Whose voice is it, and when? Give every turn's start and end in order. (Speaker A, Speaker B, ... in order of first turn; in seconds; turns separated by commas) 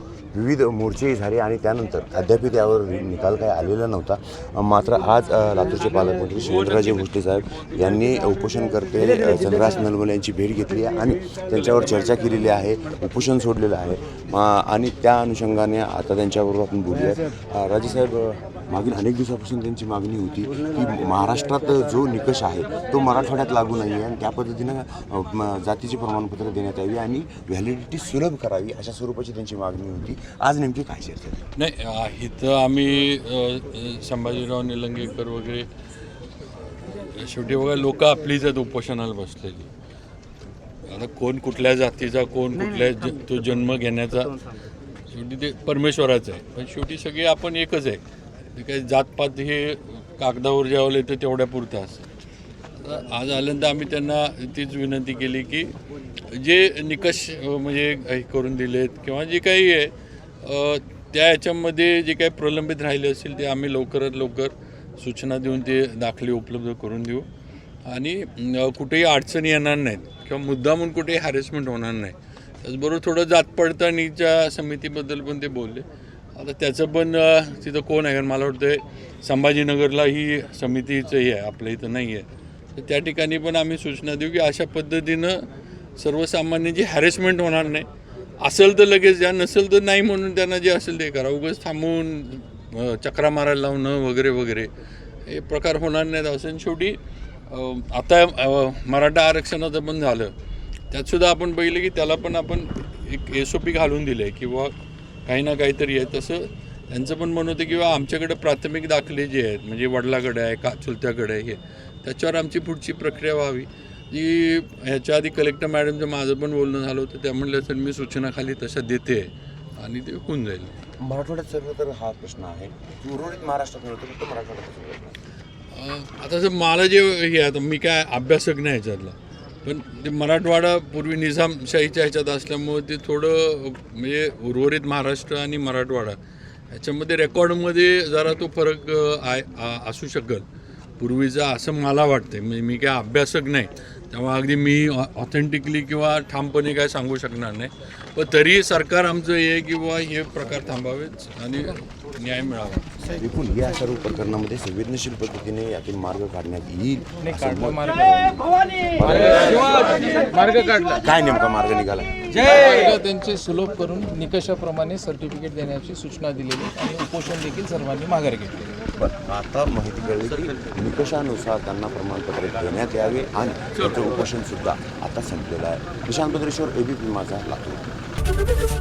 Speaker A: 0.3-31.4, Speaker B: 31.6-35.7, Speaker B: 36.8-39.7, Speaker B: 40.8-44.5, Speaker B: 45.1-48.0, Speaker B: 48.5-52.1, Speaker B: 52.8-67.3, Speaker B: 67.8-87.9, Speaker B: 88.4-94.7, Speaker B: 95.3-97.0, Speaker B: 97.5-100.3, Speaker B: 100.9-104.7, Speaker B: 105.3-120.8, Speaker A: 121.0-125.2, Speaker B: 125.7-136.2, Speaker B: 136.7-140.5, Speaker B: 141.0-153.0, Speaker A: 153.0-160.2, Speaker C: 157.2-158.1, Speaker C: 160.2-160.8, Speaker A: 160.8-162.6, Speaker C: 162.6-168.7, Speaker A: 168.9-177.9